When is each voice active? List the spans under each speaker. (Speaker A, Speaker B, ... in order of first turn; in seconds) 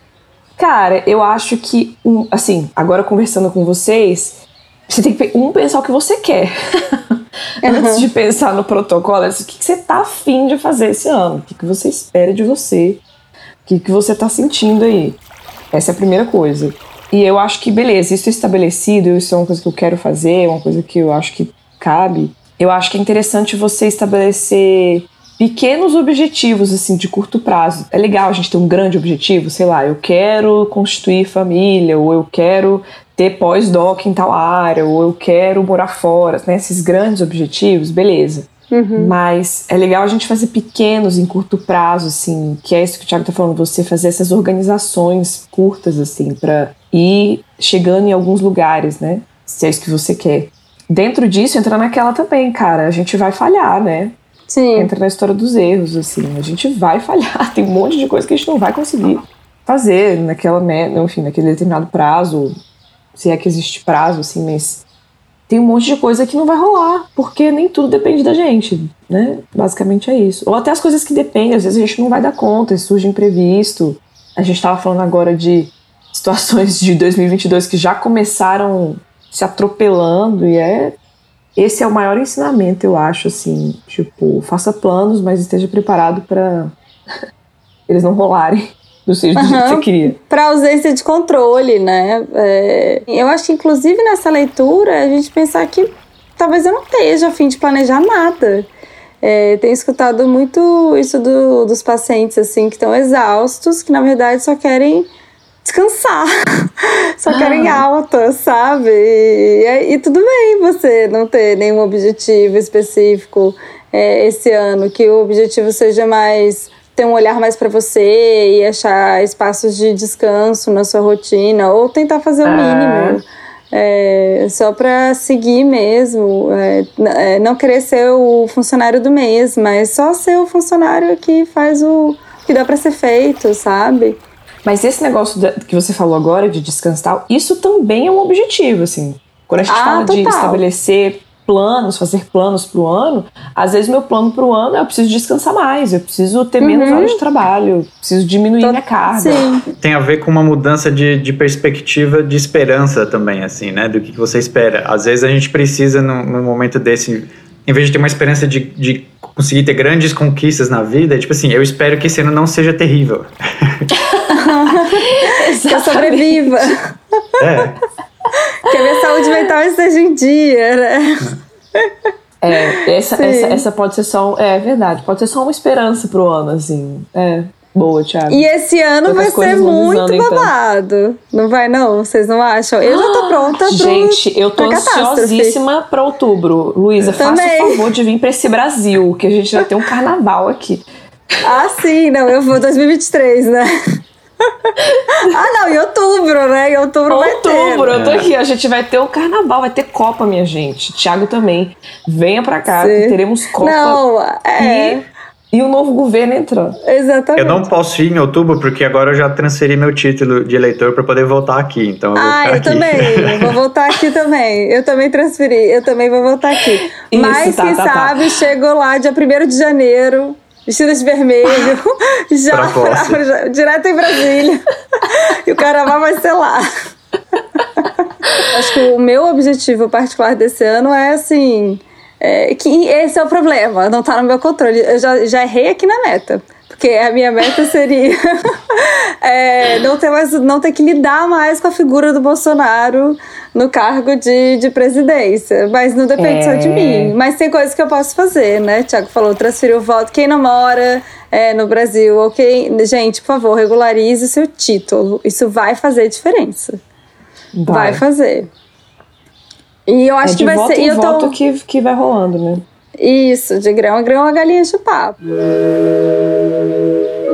Speaker A: 0.6-13.0, 13.6-15.2, 15.7-54.1, 54.8-62.6, 63.1-64.8, 65.5-81.0, 81.5-86.7, 87.9-90.1, 107.3-107.8, 122.4-123.2, 134.6-149.4, 163.9-166.8, 168.7-169.1, 172.4-178.4, 179.0-180.5, 182.8-190.8, 194.8-195.3, 197.1-204.0, 204.6-205.0, 205.5-206.8, 216.8-218.3, 246.2-247.1, 257.5-258.0, 260.2-262.6
Speaker B: 7.6-8.0, 38.7-39.1, 54.5-54.9, 89.3-98.7, 99.2-105.1, 105.6-106.3, 106.8-134.2, 139.7-140.6, 146.6-147.2, 148.6-149.6, 164.3-166.8, 168.6-171.9, 173.2-173.6, 178.3-185.6, 187.2-187.8, 191.4-193.7, 195.3-197.9, 202.7-205.0, 206.8-207.7, 212.2-226.7, 228.3-256.8, 257.7-258.5, 259.9-261.4, 263.0-265.2
Speaker C: 149.8-163.9, 167.4-167.8, 197.9-198.3, 207.3-213.6, 222.5-223.2